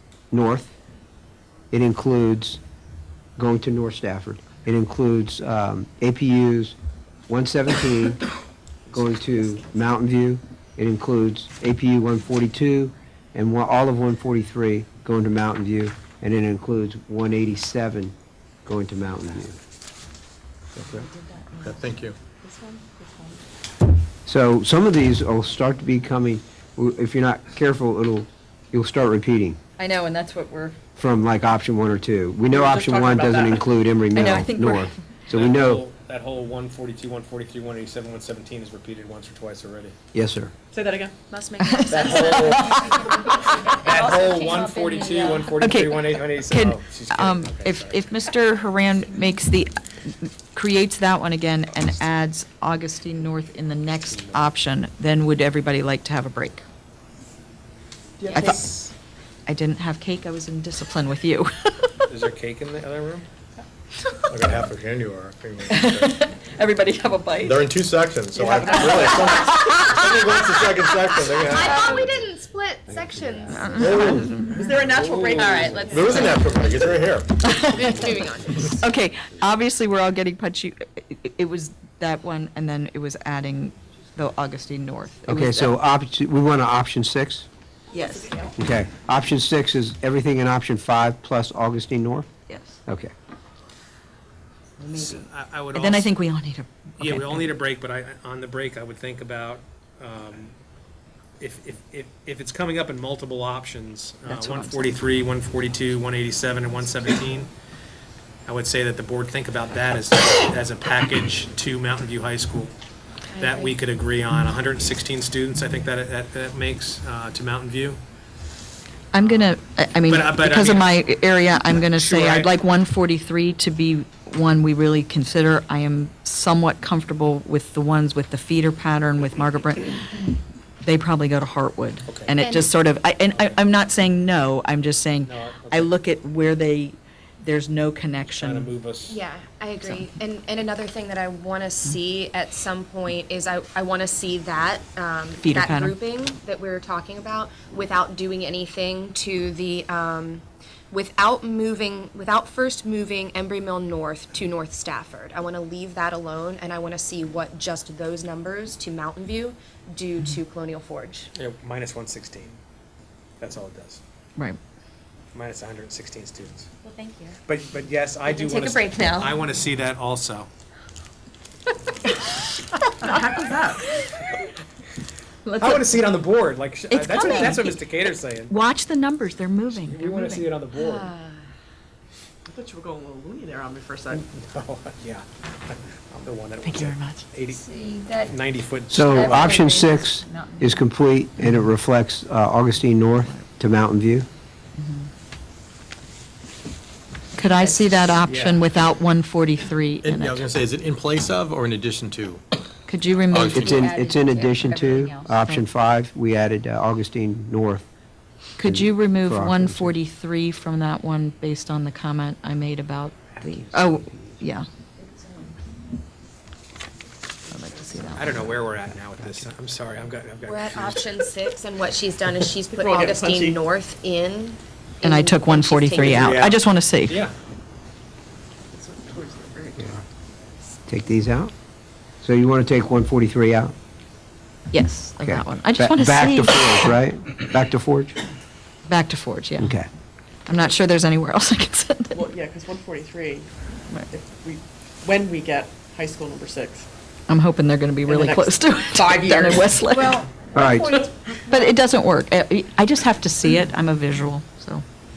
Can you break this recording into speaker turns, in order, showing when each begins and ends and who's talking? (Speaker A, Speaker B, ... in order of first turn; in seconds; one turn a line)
Speaker A: 0.3-0.7
Speaker A: 1.7-2.6
Speaker A: 3.4-6.8
Speaker A: 7.3-8.2
Speaker A: 8.9-18.1
Speaker A: 18.6-19.6
Speaker B: 20.9-21.9
Speaker C: 21.6-22.2
Speaker D: 22.4-23.4
Speaker A: 24.2-29.6
Speaker B: 29.8-30.8
Speaker A: 30.9-35.8
Speaker E: 32.5-33.6
Speaker B: 34.1-35.0
Speaker F: 35.3-39.9
Speaker A: 40.1-40.5
Speaker E: 40.7-41.1
Speaker D: 41.3-42.8
Speaker B: 41.6-43.7
Speaker F: 41.9-42.9
Speaker G: 42.9-45.6
Speaker F: 43.7-48.0
Speaker B: 45.6-56.6
Speaker E: 58.2-58.9
Speaker B: 58.3-58.6
Speaker B: 59.5-62.1
Speaker F: 62.1-63.3
Speaker C: 64.3-66.2
Speaker B: 65.7-67.7
Speaker C: 67.4-72.3
Speaker E: 68.3-69.6
Speaker B: 68.8-70.2
Speaker D: 70.3-74.2
Speaker B: 73.5-74.7
Speaker C: 73.7-74.5
Speaker E: 74.5-76.3
Speaker F: 74.6-76.0
Speaker D: 75.3-78.8
Speaker C: 75.8-77.5
Speaker B: 77.4-78.0
Speaker B: 78.7-85.7
Speaker A: 85.3-87.5
Speaker B: 87.9-88.4
Speaker A: 88.5-92.3
Speaker B: 92.5-92.8
Speaker A: 92.9-93.1
Speaker B: 94.8-97.5
Speaker F: 94.9-96.1
Speaker F: 97.0-100.5
Speaker F: 101.4-107.5
Speaker B: 104.2-105.0
Speaker F: 108.5-112.7
Speaker D: 113.3-113.7
Speaker F: 113.4-118.0
Speaker B: 119.1-130.2
Speaker F: 120.1-121.0
Speaker F: 121.9-122.5
Speaker B: 130.8-138.7
Speaker F: 132.1-132.3
Speaker D: 132.4-132.7
Speaker F: 133.3-133.6
Speaker F: 135.2-135.9
Speaker F: 138.3-139.2
Speaker D: 139.0-161.3
Speaker B: 145.4-146.0
Speaker F: 161.3-162.6
Speaker F: 163.4-164.0
Speaker F: 165.3-166.7
Speaker D: 166.8-167.4
Speaker F: 167.5-170.5
Speaker D: 168.2-169.4
Speaker E: 173.0-173.9
Speaker B: 175.4-175.9
Speaker F: 175.6-178.5
Speaker B: 176.9-177.8
Speaker B: 178.5-180.6
Speaker F: 179.7-181.1
Speaker D: 180.7-181.5
Speaker E: 182.5-184.3
Speaker F: 184.2-187.6
Speaker B: 186.6-187.2
Speaker G: 187.5-188.4
Speaker F: 188.3-189.7
Speaker A: 188.9-194.2
Speaker G: 189.1-190.8
Speaker B: 194.8-195.1
Speaker B: 197.3-200.5
Speaker G: 197.7-198.2
Speaker C: 200.0-202.4
Speaker B: 202.9-203.8
Speaker C: 203.3-203.9
Speaker A: 203.5-207.8
Speaker G: 203.6-205.4
Speaker B: 208.6-214.7
Speaker A: 208.6-210.0
Speaker A: 213.4-214.4
Speaker B: 217.5-218.4
Speaker F: 218.1-221.2
Speaker D: 220.4-226.5
Speaker E: 222.7-223.6
Speaker B: 225.0-227.2
Speaker F: 226.0-226.5
Speaker F: 227.1-227.3
Speaker E: 228.7-230.0
Speaker A: 230.9-231.5
Speaker A: 232.2-233.7
Speaker B: 234.7-236.9
Speaker A: 235.2-238.2
Speaker B: 238.9-239.8
Speaker A: 239.6-239.9
Speaker B: 240.5-242.2
Speaker E: 242.1-243.5
Speaker E: 244.1-246.9
Speaker B: 247.3-250.2
Speaker E: 248.1-249.8
Speaker G: 249.9-251.7
Speaker A: 250.5-251.0
Speaker B: 251.5-254.8